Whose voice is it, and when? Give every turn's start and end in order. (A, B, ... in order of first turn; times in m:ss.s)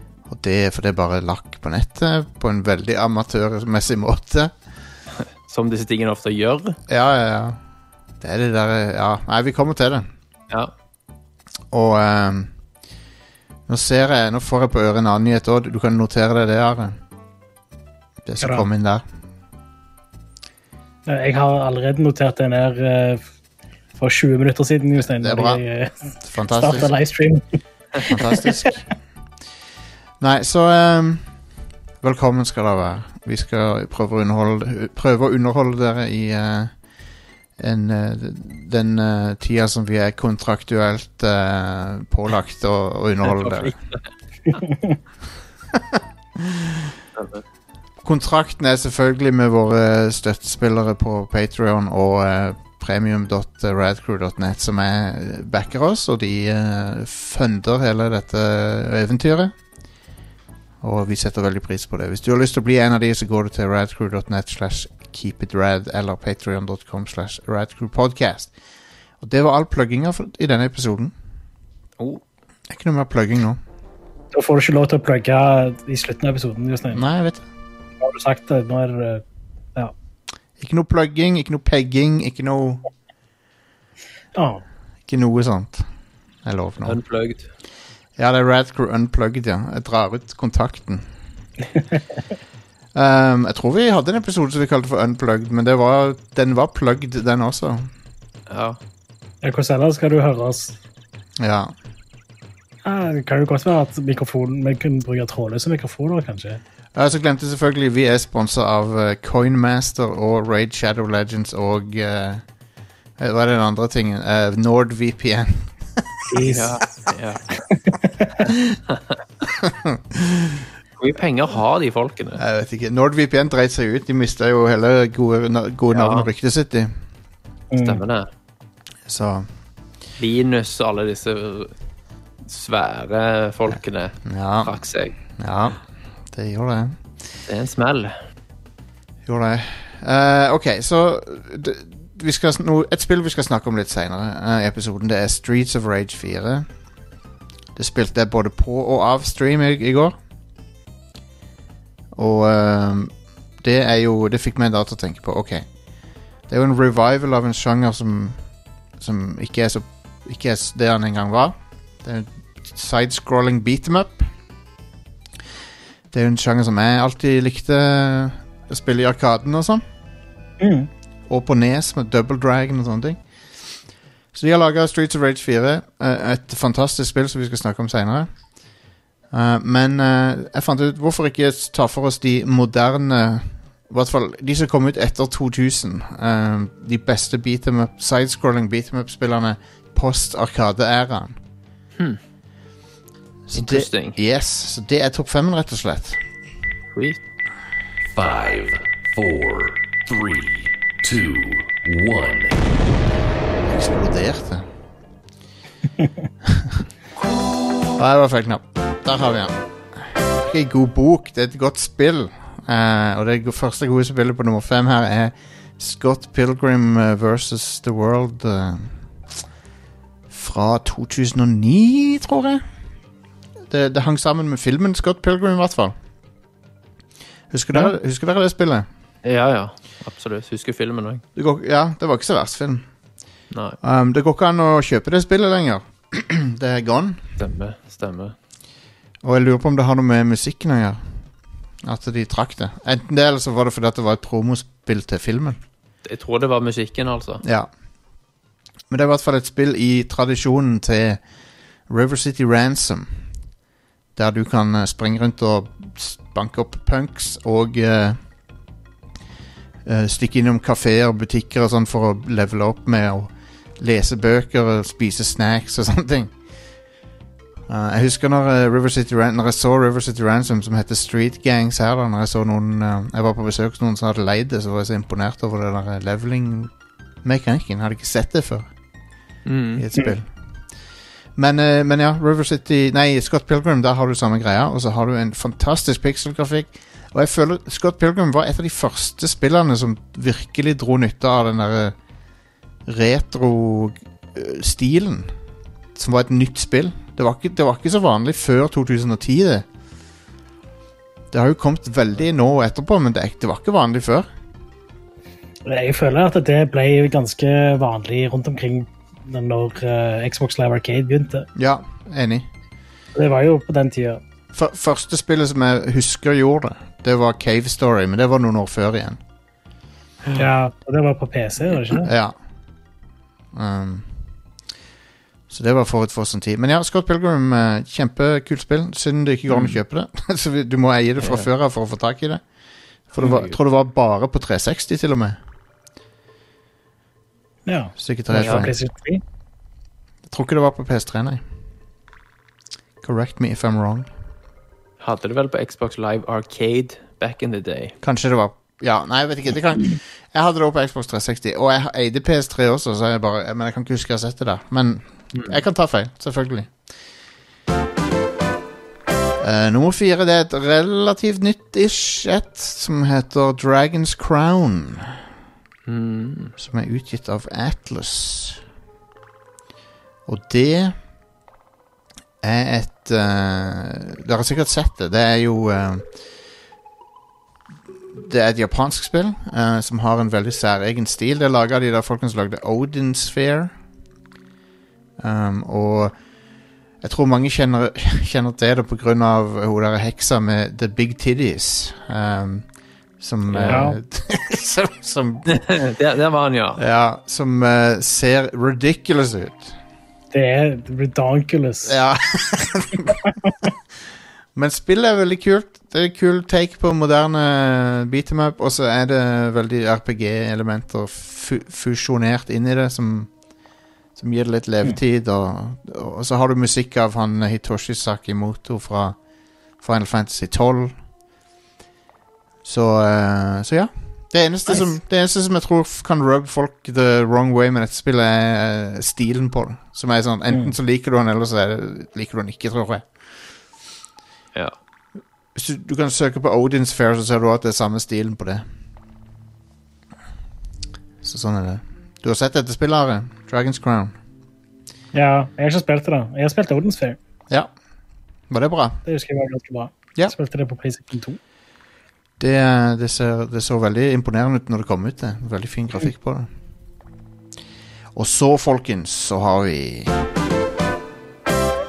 0:00.3-0:04.5 A
0:05.5-0:06.8 B
0:06.9-0:07.6 A
0:08.2-0:10.1 A
0:11.7-0:12.5 A
0:13.7-0:17.0 A
0:18.2-0:19.0 A
0:21.1-0:23.2 C
0:24.0-0:27.4 C
0:25.2-0:25.6 A
0:26.2-0:26.9 A
0:28.0-0:28.5 C
0:28.0-0:28.8 A
0:30.2-0:31.3 A
0:32.0-0:36.7 A
0:37.6-0:43.8 A
0:43.2-0:44.0 B
0:44.5-0:45.0 C
0:45.7-0:46.9 A
0:47.2-0:47.4 B
0:48.0-0:59.5 A
1:00.8-1:08.5 A
1:09.2-1:11.1 A
1:12.7-1:13.6 A
1:14.3-1:17.0 C
1:16.9-1:17.4 A
1:18.0-1:19.2 C
1:20.6-1:22.8 A
1:24.4-1:24.6 C
1:25.1-1:25.9 A
1:26.4-1:27.0 A
1:26.8-1:27.5 B
1:28.2-1:31.1 A
1:31.8-1:32.0 C
1:32.9-1:37.9 A
1:38.5-1:38.8 B
1:39.4-1:40.8 C
1:41.4-1:41.7 A
1:42.8-1:46.6 C
1:47.0-1:52.4 A
1:53.2-1:56.1 A
1:56.3-1:56.8 C
1:56.5-1:57.4 B
1:57.7-1:58.4 C
1:59.6-2:00.7 A
2:01.0-2:02.4 B
2:02.4-2:06.9 A
2:05.9-2:06.3 B
2:07.7-2:08.0 C
2:07.8-2:08.3 B
2:09.1-2:09.5 A
2:10.2-2:11.7 B
2:12.5-2:15.1 B
2:13.7-2:14.8 A
2:15.4-2:17.0 A
2:17.5-2:18.2 B
2:19.3-2:26.7 A
2:27.8-2:30.2 A
2:32.1-2:35.7 A
2:36.5-2:38.4 A
2:39.0-2:44.3 A
2:46.1-2:49.8 A
2:50.6-2:50.9 C
2:51.3-2:53.2 A
2:54.3-2:58.3 A
2:59.3-3:11.4 A
3:13.5-3:16.2 A
3:13.5-3:14.2 B
3:16.9-3:17.2 B
3:18.1-3:22.6 D
3:23.7-3:24.7 A
3:26.4-3:26.8 A
3:28.0-3:38.9 A
3:40.3-3:42.6 A
3:43.7-3:45.9 A
3:47.5-3:48.9 A
3:49.2-3:51.2 B
3:51.4-3:52.9 A
3:53.5-3:53.8 B
3:53.8-3:57.2 A
3:57.4-3:58.4 B
3:59.2-4:01.0 A
4:01.8-4:05.6 A
4:06.0-4:07.4 B
4:07.4-4:07.7 A
4:08.9-4:11.2 A
4:11.9-4:13.1 A
4:14.2-4:18.2 A
4:19.9-4:26.3 A
4:27.7-4:36.7 A
4:37.2-4:38.7 A
4:39.5-4:39.9 B
4:39.8-4:40.3 A
4:41.4-4:52.0 A
4:52.9-4:55.3 A
4:56.0-4:59.7 A
5:01.3-5:04.3 A
5:05.7-5:11.5 C
5:11.6-5:12.5 A
5:13.2-5:14.2 C
5:14.5-5:19.2 A
5:20.4-5:22.1 C
5:22.0-5:22.4 A
5:23.5-5:24.1 A
5:25.5-5:32.4 A
5:29.5-5:29.8 B
5:31.2-5:31.5 B
5:33.1-5:35.4 A
5:33.2-5:33.6 B
5:37.7-5:39.2 C
5:38.0-5:38.7 A
5:40.3-5:41.4 A
5:43.0-5:44.1 A
5:45.0-5:48.0 B
5:48.0-5:56.7 A
5:55.3-5:55.6 B
5:59.4-6:05.2 A
6:05.9-6:06.5 B
6:06.6-6:08.6 A
6:10.3-6:11.0 A
6:12.4-6:16.1 A
6:18.1-6:23.7 A
6:25.2-6:26.1 A
6:27.0-6:32.7 A
6:33.2-6:35.6 A
6:33.5-6:33.8 B
6:33.7-6:34.0 C
6:35.5-6:36.8 B
6:36.8-6:39.8 A
6:40.3-6:41.9 C
6:41.8-6:43.2 A
6:44.6-6:53.3 A
6:54.2-6:59.2 A
6:59.8-7:00.9 A
7:02.6-7:13.1 A
7:15.6-7:18.6 A
7:21.2-7:24.2 A
7:25.1-7:27.2 C
7:28.5-7:29.0 A
7:29.1-7:31.4 C
7:32.4-7:36.5 A
7:38.2-7:40.2 A